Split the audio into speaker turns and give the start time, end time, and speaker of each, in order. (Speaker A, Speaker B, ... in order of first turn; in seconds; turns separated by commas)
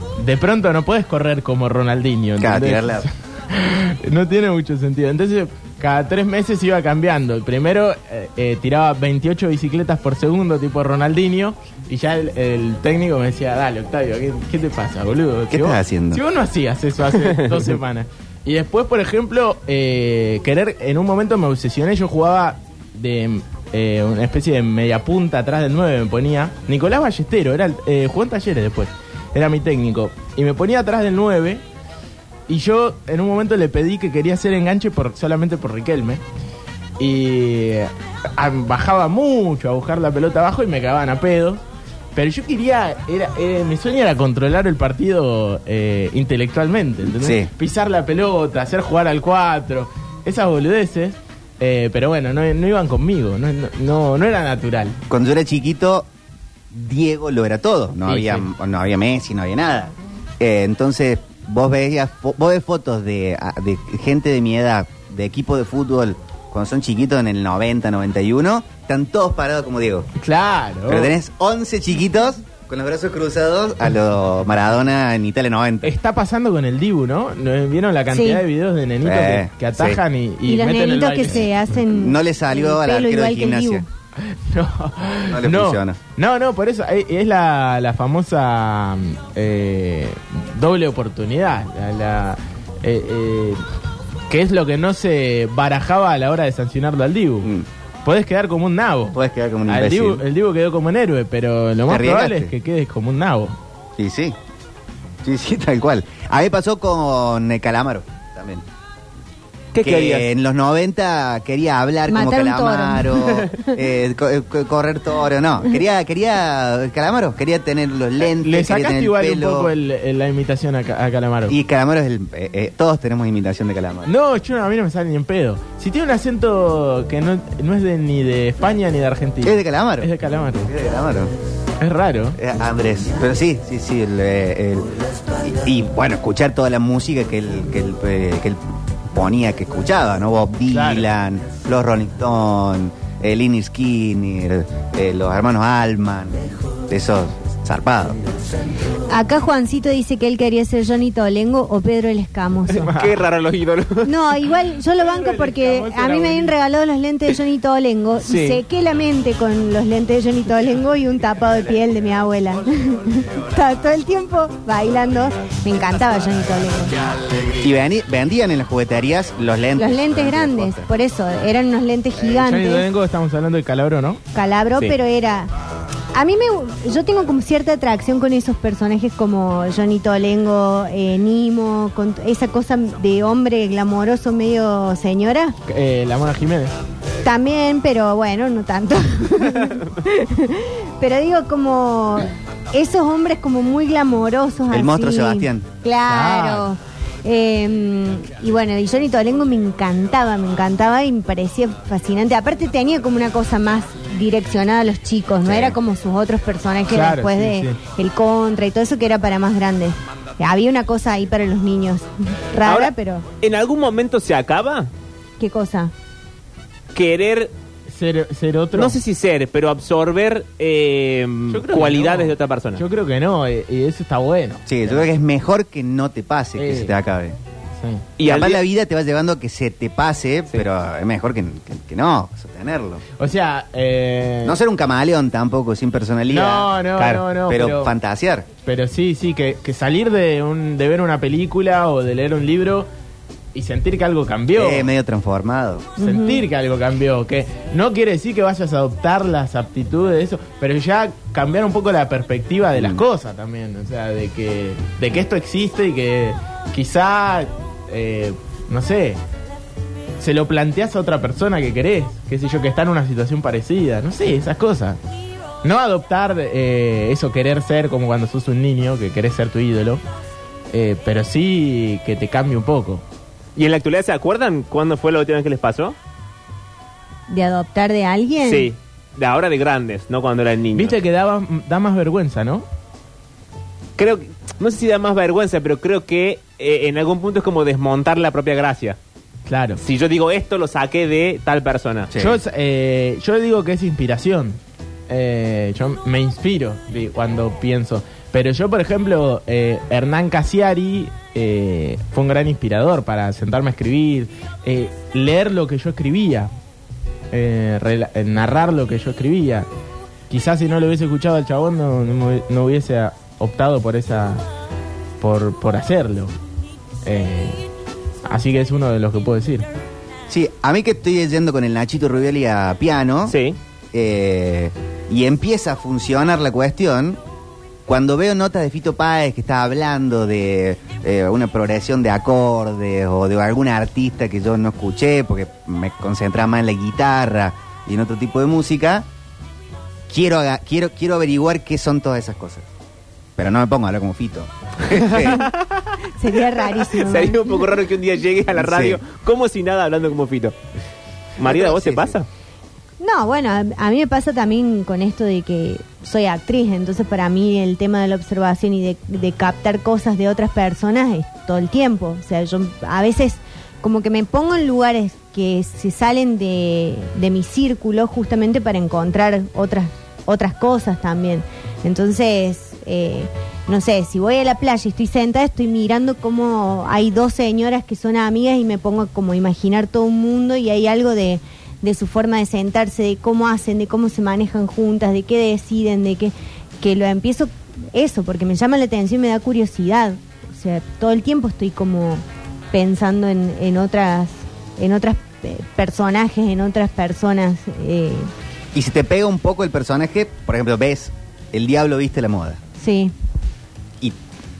Speaker A: 0.2-31.6, Speaker B: 2.4-3.1, Speaker B: 15.5-16.2, Speaker A: 32.5-36.2, Speaker A: 37.0-41.6, Speaker A: 42.1-55.0, Speaker B: 47.1-47.5, Speaker B: 55.1-56.1, Speaker B: 56.7-70.1, Speaker A: 58.0-58.5, Speaker A: 70.2-71.1, Speaker B: 70.9-75.9, Speaker A: 75.8-81.5, Speaker C: 78.1-78.4, Speaker B: 79.0-80.0, Speaker C: 80.5-83.9, Speaker B: 81.8-83.8, Speaker A: 84.2-93.6, Speaker B: 85.3-86.0, Speaker A: 94.3-97.5, Speaker A: 98.0-103.6, Speaker B: 99.1-100.3, Speaker B: 101.9-102.5, Speaker B: 104.0-104.4, Speaker B: 105.2-108.7, Speaker D: 109.7-110.3, Speaker B: 109.8-119.7, Speaker C: 112.1-113.7, Speaker A: 118.2-121.5, Speaker B: 121.5-124.1, Speaker A: 124.1-130.7, Speaker B: 129.4-131.3, Speaker A: 131.8-132.4, Speaker B: 132.4-148.2, Speaker A: 140.7-141.1, Speaker C: 149.1-152.9, Speaker D: 152.7-154.3, Speaker C: 154.1-166.9, Speaker A: 154.9-156.6, Speaker D: 158.2-158.6, Speaker B: 167.6-170.9, Speaker C: 169.8-172.8, Speaker A: 172.2-174.2, Speaker C: 174.3-175.5, Speaker C: 176.1-185.6, Speaker A: 185.7-186.8, Speaker C: 187.2-213.3, Speaker B: 194.7-195.7, Speaker A: 196.1-196.7, Speaker B: 205.4-205.8, Speaker A: 206.9-207.8, Speaker D: 212.6-214.9, Speaker C: 215.4-215.9, Speaker D: 216.9-217.5, Speaker A: 217.9-219.0, Speaker D: 218.7-222.8, Speaker A: 221.5-225.0, Speaker B: 224.7-227.4, Speaker A: 226.6-227.0, Speaker A: 227.8-228.1, Speaker D: 228.2-228.6, Speaker B: 228.2-233.0, Speaker A: 233.2-234.6, Speaker B: 234.4-238.5, Speaker A: 236.3-237.9, Speaker A: 238.7-242.9, Speaker A: 243.5-244.9, Speaker B: 244.5-245.9, Speaker C: 246.0-246.4, Speaker A: 246.0-259.2, Speaker B: 252.8-253.0, Speaker A: 260.2-265.0, Speaker A: 265.6-270.0, Speaker A: 270.7-273.0, Speaker D: 273.6-276.0, Speaker C: 277.3-278.7, Speaker D: 278.4-281.0, Speaker A: 280.8-282.6, Speaker D: 284.0-289.0, Speaker A: 289.5-289.8, Speaker D: 289.8-292.1, Speaker B: 292.1-292.4, Speaker A: 292.2-306.5, Speaker A: 307.3-309.7, Speaker A: 310.3-314.4, Speaker A: 315.2-316.3, Speaker A: 317.1-317.6, Speaker A: 318.2-319.7, Speaker B: 320.3-323.4, Speaker D: 323.3-323.6, Speaker B: 323.9-327.2, Speaker B: 327.9-339.1, Speaker B: 340.1-342.6, Speaker B: 343.4-345.5, Speaker D: 344.9-346.0, Speaker C: 346.2-347.8, Speaker D: 346.7-350.6, Speaker B: 348.5-349.0, Speaker D: 351.4-352.3, Speaker B: 351.4-352.1, Speaker C: 353.0-398.3, Speaker B: 398.7-402.6, Speaker C: 402.8-403.1